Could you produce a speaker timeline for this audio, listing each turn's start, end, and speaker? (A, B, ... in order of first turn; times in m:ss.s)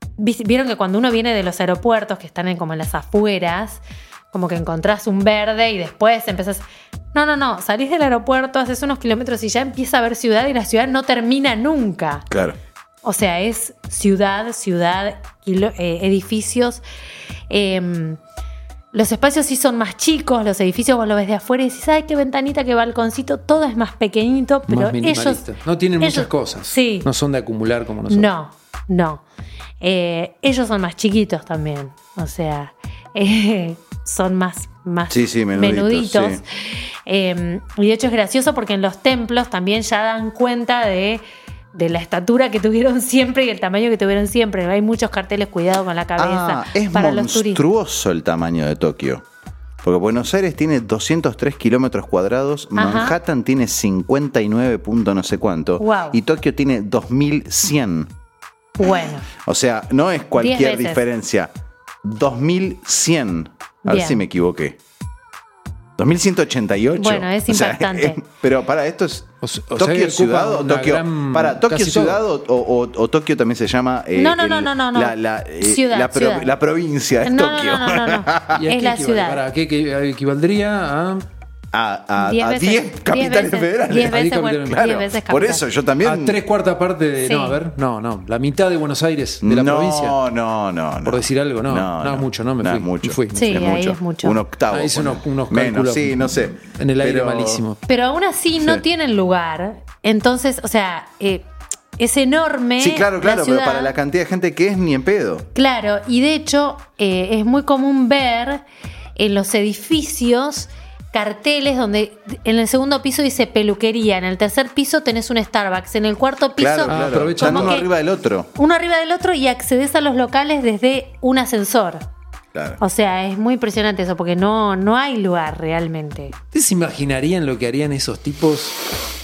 0:00.2-0:12.2 A
0:12.3-0:12.6 B
0:13.0-0:16.8 A
0:17.5-0:18.2 A
0:18.9-0:25.4 A
0:24.7-0:28.3 C
0:26.0-0:27.1 A
0:28.1-0:29.2 A
0:29.8-0:47.6 A
0:35.1-0:36.4 B
0:46.2-0:49.2 B
0:49.8-0:58.1 B
0:52.7-0:53.2 A
0:55.8-0:56.2 A
0:58.8-0:59.3 A
0:59.4-1:01.5 B
1:00.4-1:01.0 A
1:02.0-1:04.8 B
1:03.8-1:04.2 A
1:06.0-1:18.7 B
1:07.0-1:08.2 A
1:09.4-1:12.2 C
1:14.1-1:16.5 A
1:17.2-1:19.4 A
1:18.5-1:21.2 C
1:21.7-1:26.4 B
1:22.2-1:25.6 A
1:24.0-1:24.9 C
1:26.0-1:30.2 C
1:27.2-1:27.6 A
1:29.4-1:37.6 B
1:31.0-1:33.6 C
1:33.3-1:34.4 A
1:34.7-1:37.8 C
1:37.9-1:41.4 A
1:42.0-1:43.9 A
1:42.8-1:45.5 B
1:45.5-1:48.6 A
1:49.2-1:57.9 A
1:56.6-1:58.5 B
1:56.9-1:57.8 C
1:58.5-2:02.0 A
2:02.5-2:02.8 B
2:02.8-2:06.3 A
2:06.5-2:08.9 C